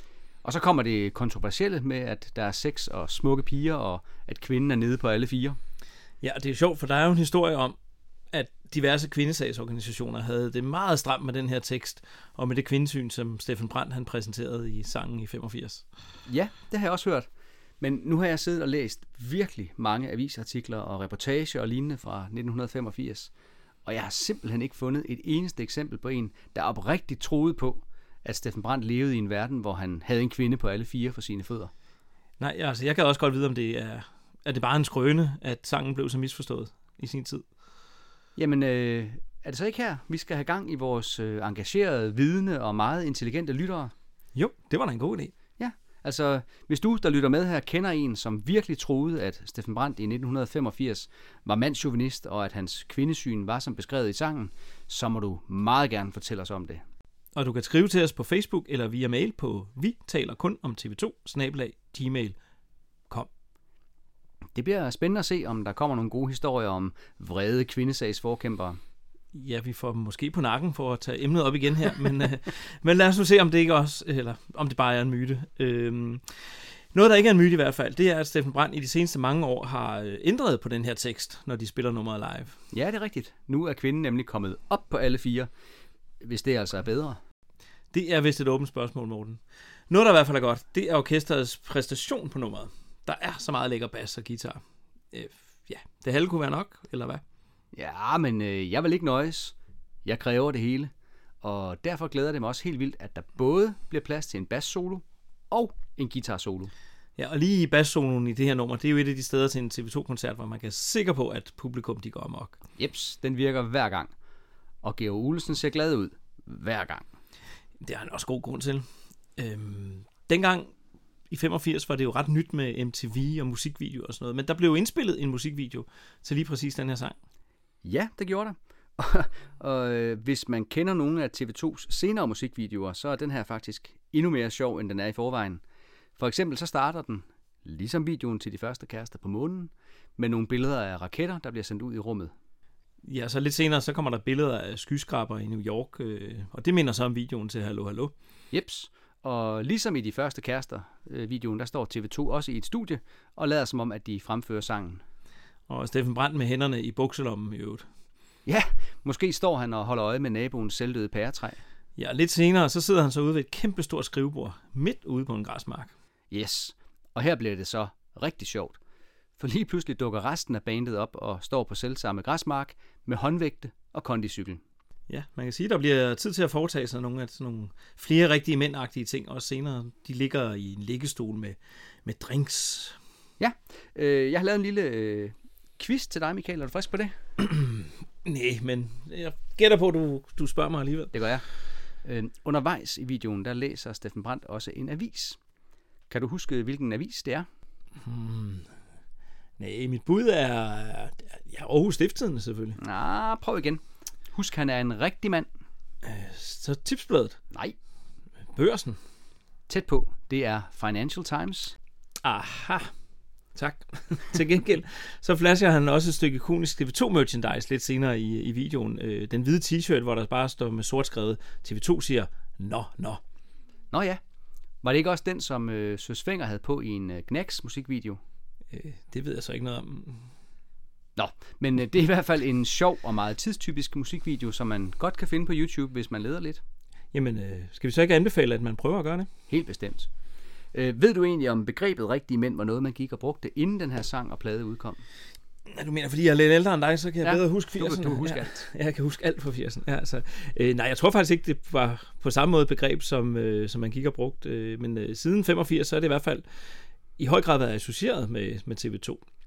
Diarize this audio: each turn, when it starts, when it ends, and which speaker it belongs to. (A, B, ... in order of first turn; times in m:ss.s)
0:00.4-0:05.6 A
0:06.2-0:07.8 B
0:08.3-0:15.8 B
0:16.3-0:17.3 A
0:17.8-0:23.3 A
0:23.8-0:31.7 A
0:32.4-0:37.4 B
0:38.4-0:43.9 A
0:44.3-0:45.4 B
0:45.6-0:56.8 A
0:57.3-1:02.4 B
1:04.5-1:08.8 A
1:09.3-1:22.6 B
1:22.7-1:25.5 A
1:26.2-1:27.2 A
1:27.9-1:37.2 B
1:37.7-1:40.9 A
1:41.4-1:46.7 A
1:47.2-1:52.6 B
1:52.8-1:54.1 A
1:54.8-1:57.1 A
1:57.8-1:58.8 B
1:59.4-2:00.7 B
2:01.3-2:07.2 B
2:07.8-2:15.6 A
2:16.2-2:22.3 A
2:23.0-2:28.1 B
2:28.5-2:35.0 A
2:35.7-2:37.9 B
2:38.4-2:41.6 A
2:42.0-2:45.9 B
2:46.3-2:48.8 A
2:49.4-2:54.6 A
2:55.1-3:03.0 B
3:03.4-3:07.1 A
3:07.4-3:11.1 B
3:11.1-3:11.5 A
3:12.0-3:15.4 A
3:16.1-3:17.5 A
3:18.0-3:18.7 B
3:19.6-3:22.8 B
3:22.8-3:23.8 A
3:24.3-3:25.5 A
3:26.0-3:27.4 B
3:28.5-3:29.0 B
3:29.7-3:31.7 A
3:32.2-3:32.9 B
3:33.5-3:43.2 B
3:43.9-3:44.2 A
3:44.8-3:48.2 A
3:48.7-3:50.3 B
3:51.2-3:56.6 A
3:57.1-3:59.3 B
3:59.5-4:00.1 A
4:00.7-4:05.0 A
4:05.7-4:16.4 B
4:07.2-4:08.6 A
4:17.2-4:19.2 B